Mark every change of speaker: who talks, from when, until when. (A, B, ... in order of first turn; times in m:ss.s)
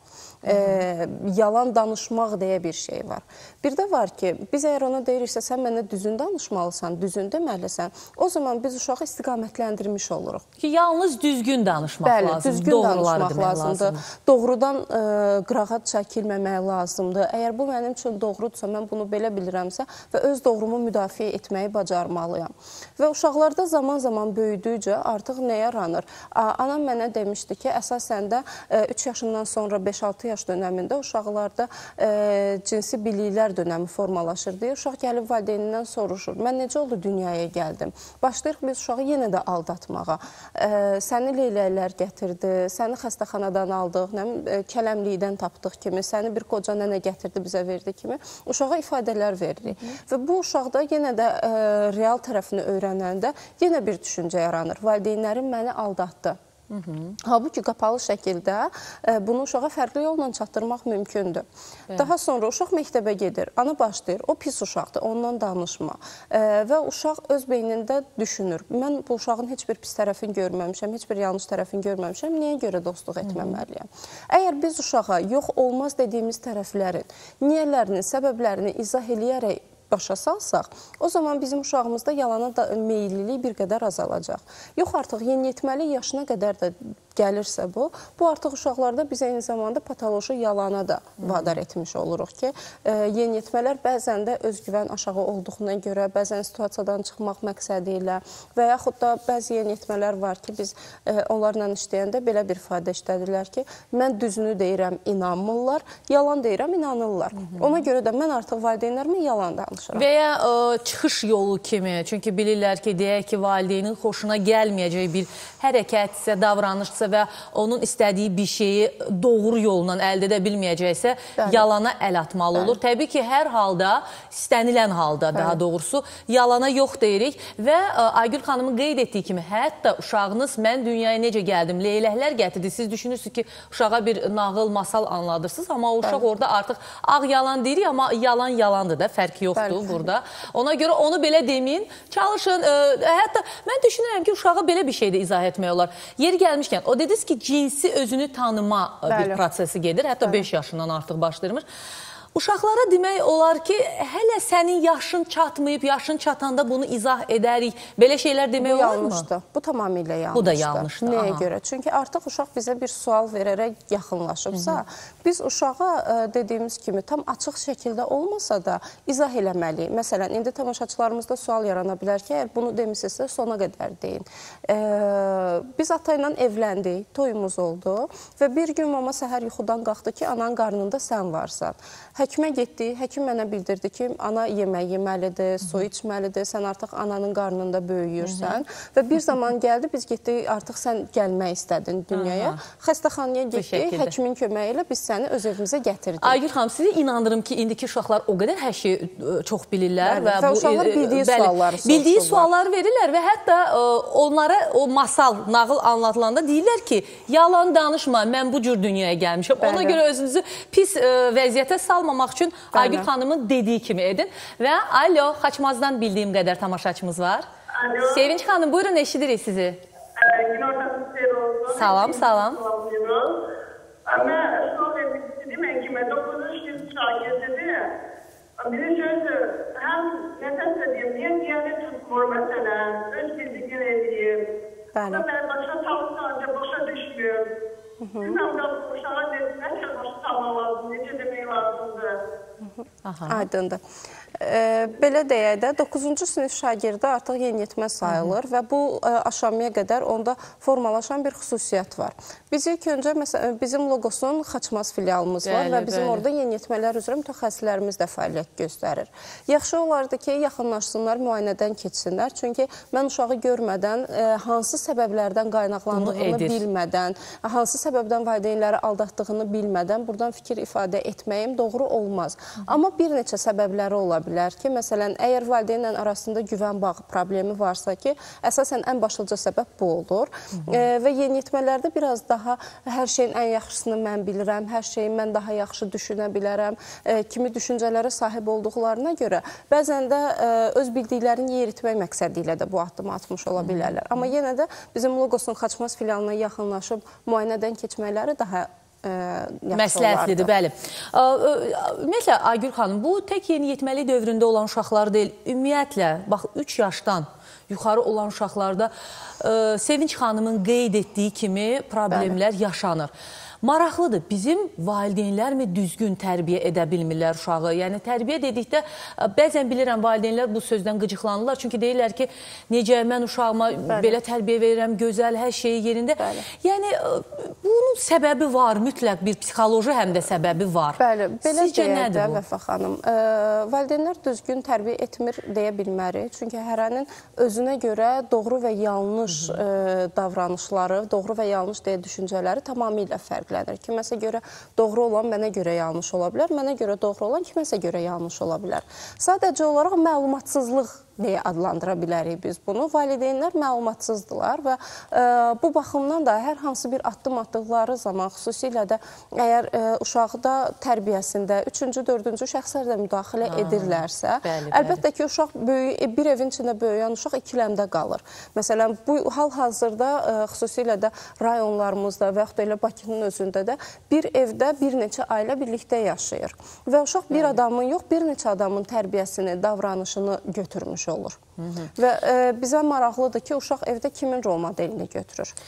0:00.4-0:10.4 A
0:00.5-0:00.8 B
0:10.6-0:14.0 B
0:12.0-0:56.4 A
0:56.7-0:57.1 B
0:57.2-1:50.0 A
1:13.2-1:13.6 B
1:31.2-1:31.5 B
1:49.9-2:31.6 B
2:01.4-2:01.7 A
2:05.3-2:05.6 A
2:19.5-2:20.0 A
2:29.1-2:29.4 A
2:32.3-2:39.2 B
2:38.6-3:16.4 A
2:40.3-2:41.4 B
3:08.2-3:08.6 B
3:12.1-3:12.6 B
3:13.5-3:14.1 B
3:16.2-3:37.5 B
3:20.0-3:22.5 A
3:29.6-3:30.0 A
3:32.7-3:33.1 A
3:37.8-3:38.3 C
3:38.0-3:39.8 B
3:40.2-3:43.4 C
3:41.7-3:42.6 B
3:44.1-3:47.9 C
3:48.6-3:54.4 C
3:54.9-3:55.2 A
3:55.0-3:57.5 C
3:58.0-3:58.4 A
3:58.2-4:02.2 C
4:02.6-4:03.8 A
4:03.0-4:03.4 B
4:04.4-5:00.5 A
4:08.0-4:08.3 B
4:15.4-4:16.2 B
4:25.9-4:26.6 B
4:53.6-4:53.9 B
4:59.7-5:13.1 B
5:12.1-5:12.4 A
5:13.6-5:32.4 B
5:23.9-5:24.2 A
5:26.2-5:26.4 A
5:31.0-6:21.4 A
6:03.4-6:05.0 B
6:17.3-6:17.6 B
6:21.6-6:21.9 B
6:21.9-6:25.6 A